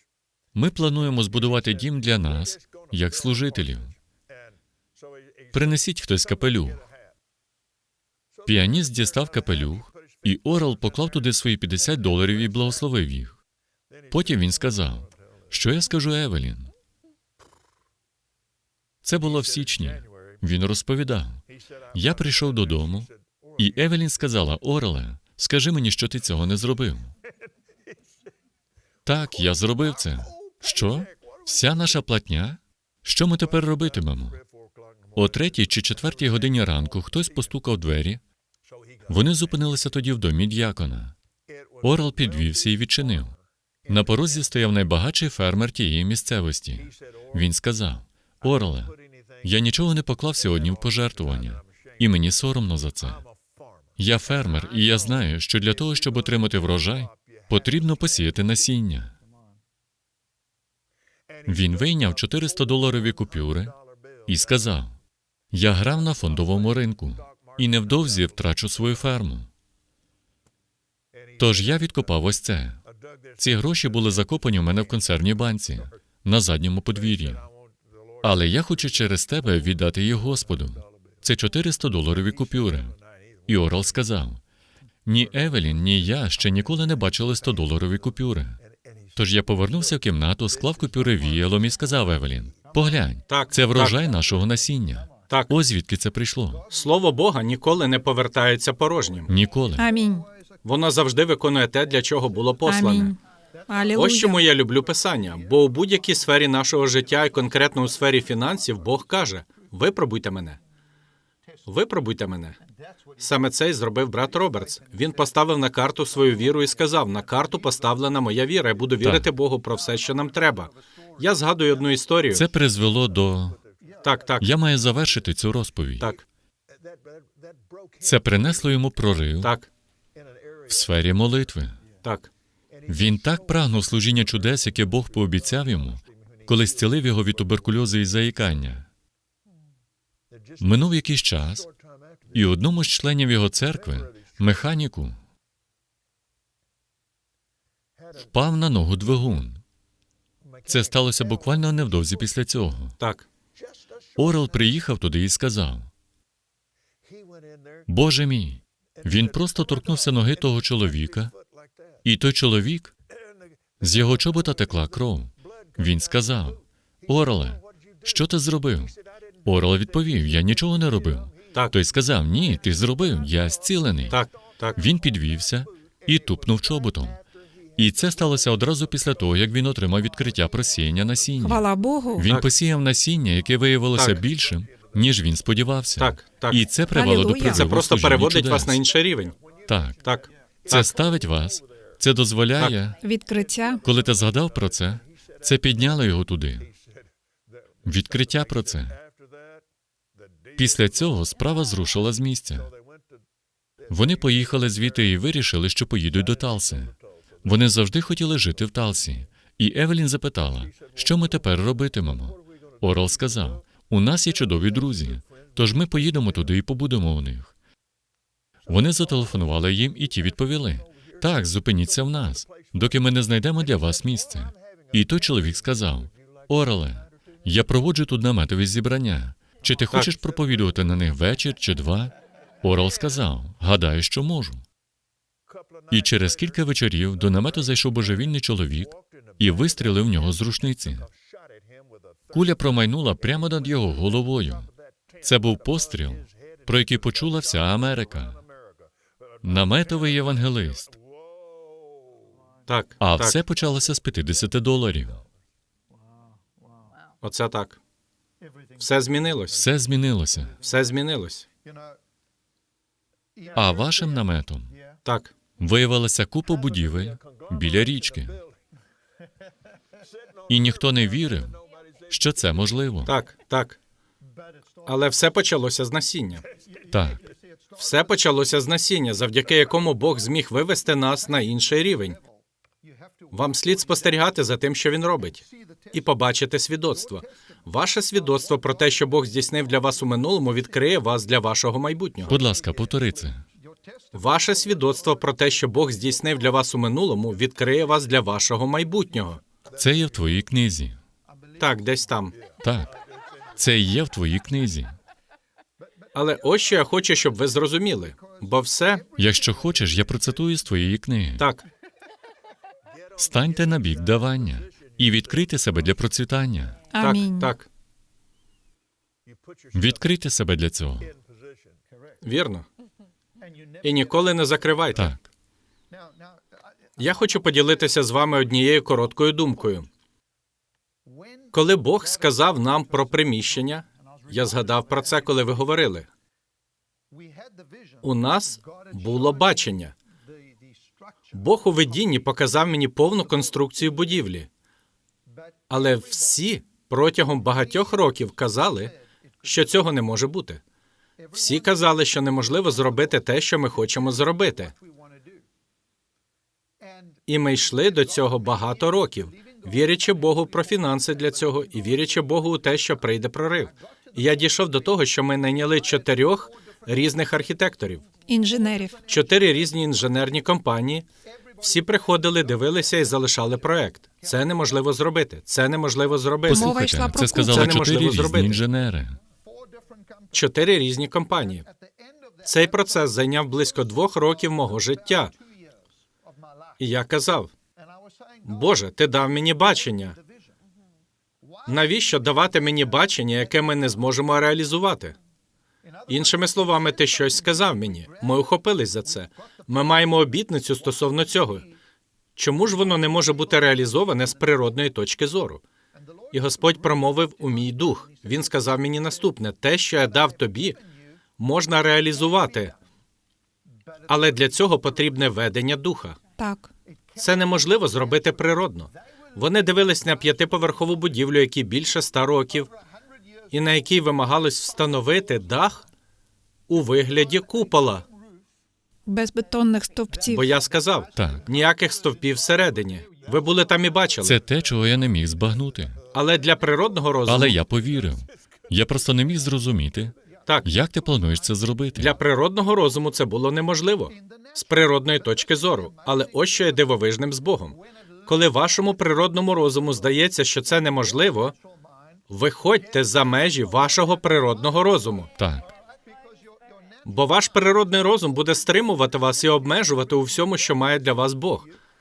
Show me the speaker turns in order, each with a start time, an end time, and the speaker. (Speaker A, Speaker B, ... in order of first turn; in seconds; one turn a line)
Speaker A: 0.5-4.0
Speaker A: 5.5-6.8
Speaker A: 8.4-13.4
Speaker A: 14.1-16.7
Speaker A: 19.0-27.1
Speaker A: 29.1-34.4
Speaker A: 35.1-38.2
Speaker A: 39.1-41.1
Speaker A: 41.8-43.4
Speaker A: 43.9-53.2
Speaker A: 54.0-59.1
Speaker A: 61.5-63.8
Speaker A: 64.3-65.0
Speaker A: 65.5-69.5
Speaker A: 71.4-72.8
Speaker A: 73.4-77.5
Speaker A: 78.2-83.0
Speaker A: 83.5-84.4
Speaker A: 85.1-88.6
Speaker A: 89.2-96.7
Speaker B: 93.3-94.0
Speaker B: 96.7-99.3
Speaker A: 99.3-99.9
Speaker C: 99.8-100.3
Speaker B: 100.6-103.1
Speaker C: 102.7-104.4
Speaker B: 104.0-110.6
Speaker B: 111.7-112.6
Speaker B: 113.2-122.4
Speaker A: 119.0-119.3
Speaker A: 122.3-123.6
Speaker B: 124.0-124.5
Speaker A: 124.4-126.1
Speaker A: 128.0-129.5
Speaker B: 129.4-129.7
Speaker A: 130.7-131.8
Speaker B: 132.0-132.3
Speaker A: 132.9-138.9
Speaker A: 140.6-141.7
Speaker A: 142.3-145.2
Speaker A: 148.2-149.6
Speaker A: 150.7-153.0
Speaker B: 153.0-153.3
Speaker A: 154.2-155.9
Speaker A: 157.9-161.3
Speaker A: 162.0-162.9
Speaker A: 163.8-174.2
Speaker B: 174.1-174.8
Speaker A: 174.8-177.2
Speaker A: 177.8-181.7
Speaker C: 181.4-182.3
Speaker A: 182.2-188.8
Speaker B: 184.0-184.2
Speaker B: 186.0-186.7
Speaker C: 186.9-187.7
Speaker B: 187.4-189.4
Speaker A: 189.7-190.0
Speaker B: 190.0-191.0
Speaker A: 190.7-193.0
Speaker C: 193.0-193.8
Speaker A: 193.8-196.7
Speaker A: 197.8-199.0
Speaker A: 200.6-202.7
Speaker A: 203.9-217.5
Speaker A: 218.7-234.6
Speaker A: 235.9-241.1
Speaker A: 242.3-244.7
Speaker A: 245.2-248.4
Speaker A: 249.4-250.9
Speaker B: 252.7-253.4
Speaker A: 253.0-255.2
Speaker B: 257.2-257.8
Speaker B: 258.8-259.6
Speaker A: 259.6-260.6
Speaker B: 260.6-261.5
Speaker A: 263.6-264.7
Speaker B: 265.1-265.3
Speaker A: 265.6-268.4
Speaker A: 270.5-273.1
Speaker B: 273.1-273.8
Speaker B: 274.9-276.4
Speaker A: 276.9-277.2
Speaker B: 277.8-282.2
Speaker B: 283.3-292.4
Speaker A: 292.2-293.4
Speaker B: 294.1-299.4
Speaker A: 299.8-301.0
Speaker B: 301.6-302.4
Speaker A: 302.6-303.0
Speaker A: 303.6-305.0
Speaker B: 306.1-309.1
Speaker A: 309.2-311.5
Speaker B: 311.4-311.6
Speaker A: 313.2-316.8
Speaker C: 316.9-317.5
Speaker B: 317.0-317.7
Speaker A: 319.7-321.1
Speaker B: 322.2-322.6
Speaker B: 323.8-325.1
Speaker A: 324.9-325.3
Speaker B: 327.0-329.9
Speaker B: 331.5-336.1
Speaker B: 338.0-339.9
Speaker B: 341.3-344.5
Speaker B: 345.7-350.6
Speaker B: 351.3-354.7
Speaker B: 357.3-368.0
Speaker C: 368.3-369.0
Speaker B: 369.1-371.1
Speaker B: 371.6-376.8
Speaker A: 376.5-379.2
Speaker C: 376.5-377.8
Speaker B: 377.3-378.6
Speaker B: 380.3-381.7
Speaker B: 382.4-385.3
Speaker B: 386.8-387.5
Speaker B: 388.4-390.2
Speaker B: 391.7-395.2
Speaker B: 396.1-401.7
Speaker B: 402.4-405.6
Speaker B: 406.3-410.8
Speaker B: 411.4-412.8
Speaker B: 414.1-416.2
Speaker C: 416.4-416.7
Speaker B: 417.2-422.7
Speaker B: 423.5-425.8
Speaker B: 426.7-428.1
Speaker C: 429.1-430.5
Speaker B: 430.3-434.4
Speaker A: 431.1-431.5
Speaker A: 434.2-436.0
Speaker B: 436.1-437.6
Speaker A: 437.3-442.2
Speaker B: 442.0-451.6
Speaker B: 452.3-455.3
Speaker A: 455.4-455.7
Speaker B: 457.1-461.7